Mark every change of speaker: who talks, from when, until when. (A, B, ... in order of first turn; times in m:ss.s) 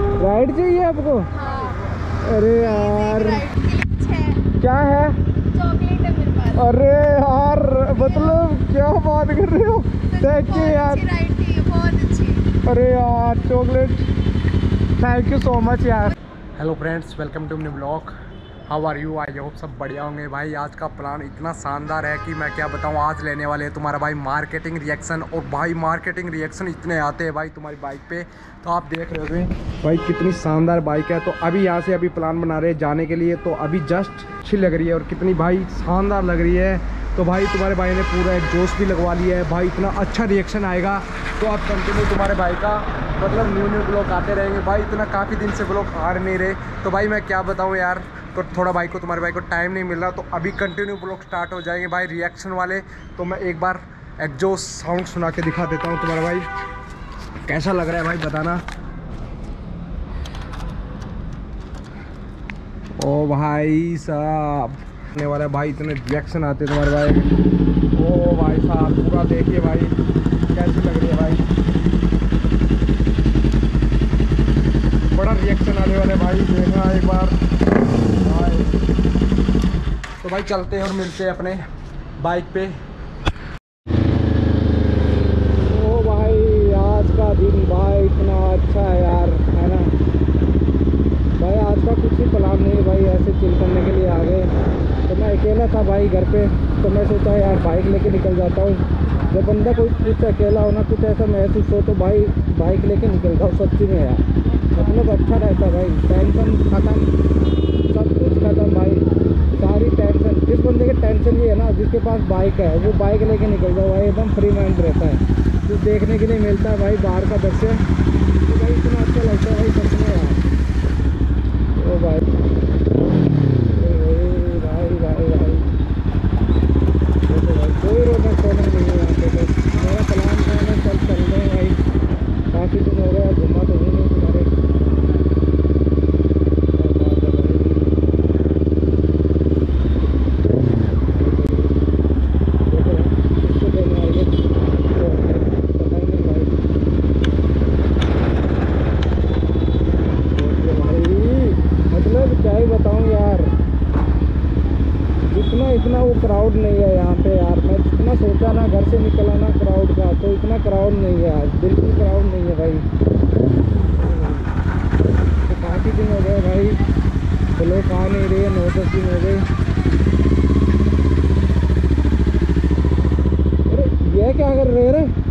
0:00.2-0:01.3 A
0:01.3-0:01.8 B
0:02.2-0:03.4 A
0:02.6-0:04.4 B
0:04.6-0:05.2 A
0:05.5-0:06.7 B
0:06.5-0:11.0 A
0:07.9-0:08.4 B
0:10.1-0:12.4 B
0:12.6-0:14.1 A
0:15.0-0:18.1 A
0:18.7-0:56.5 A
0:57.4-0:58.6 A
1:03.0-1:07.4 A
1:07.9-1:09.9 A
1:10.5-1:11.4 A
1:15.1-1:17.4 A
1:18.2-1:18.8 A
1:20.2-1:21.6 A
1:22.2-1:22.8 A
1:25.7-1:29.9 A
1:31.4-1:34.5 A
1:35.1-1:44.2 A
1:44.7-1:47.1 A
1:47.9-1:57.8 A
1:58.4-2:00.4 A
2:01.7-2:02.3 A
2:03.7-2:05.7 A
2:07.2-2:11.8 A
2:12.5-2:14.5 A
2:16.8-2:18.0 A
2:21.1-2:21.7 A
2:22.7-2:24.4 A
2:24.9-2:26.6 A
2:30.3-2:33.5 A
2:35.2-2:42.8 A
2:43.9-2:44.5 A
2:45.5-2:46.8 A
2:47.6-2:49.4 A
2:53.7-2:55.1 A